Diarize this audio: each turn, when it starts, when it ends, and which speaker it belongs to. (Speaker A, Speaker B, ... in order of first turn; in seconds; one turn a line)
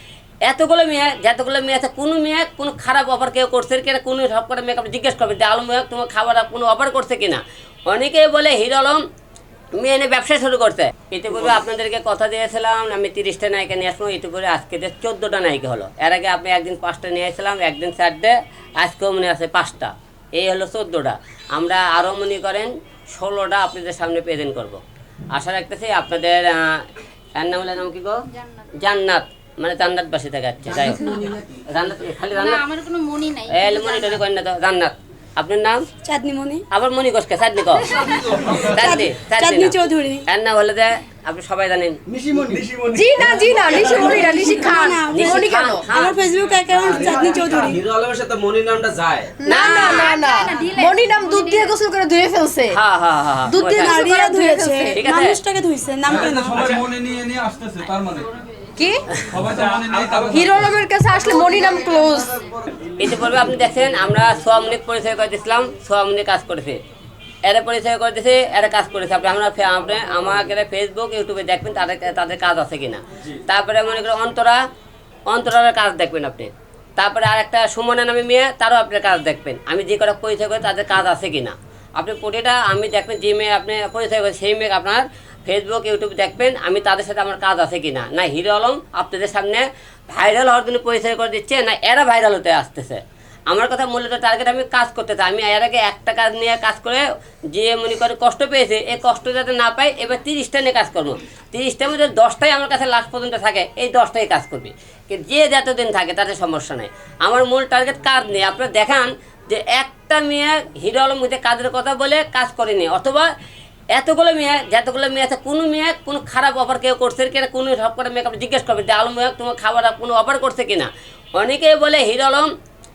Speaker A: 0.5-9.0
Speaker A: 9.8-24.8
Speaker A: 25.3-28.2
Speaker A: 28.8-31.2
Speaker B: 30.8-31.3
Speaker A: 31.7-32.6
Speaker B: 32.3-34.2
Speaker A: 33.5-35.9
Speaker C: 36.0-36.6
Speaker A: 36.7-42.0
Speaker C: 38.2-40.3
Speaker D: 42.1-44.4
Speaker E: 42.9-45.9
Speaker C: 43.9-47.8
Speaker A: 45.1-46.2
Speaker D: 46.8-49.4
Speaker E: 49.4-52.8
Speaker A: 49.5-50.2
Speaker B: 49.6-51.8
Speaker A: 52.7-54.0
Speaker E: 53.5-55.0
Speaker C: 53.7-56.8
Speaker A: 54.9-55.4
Speaker F: 56.0-58.3
Speaker D: 56.5-56.9
Speaker E: 58.8-59.0
Speaker F: 59.3-60.7
Speaker D: 59.5-60.6
Speaker E: 60.3-62.4
Speaker D: 61.5-62.5
Speaker A: 63.0-66.8
Speaker A: 67.5-74.6
Speaker A: 75.3-113.3
Speaker A: 113.9-122.5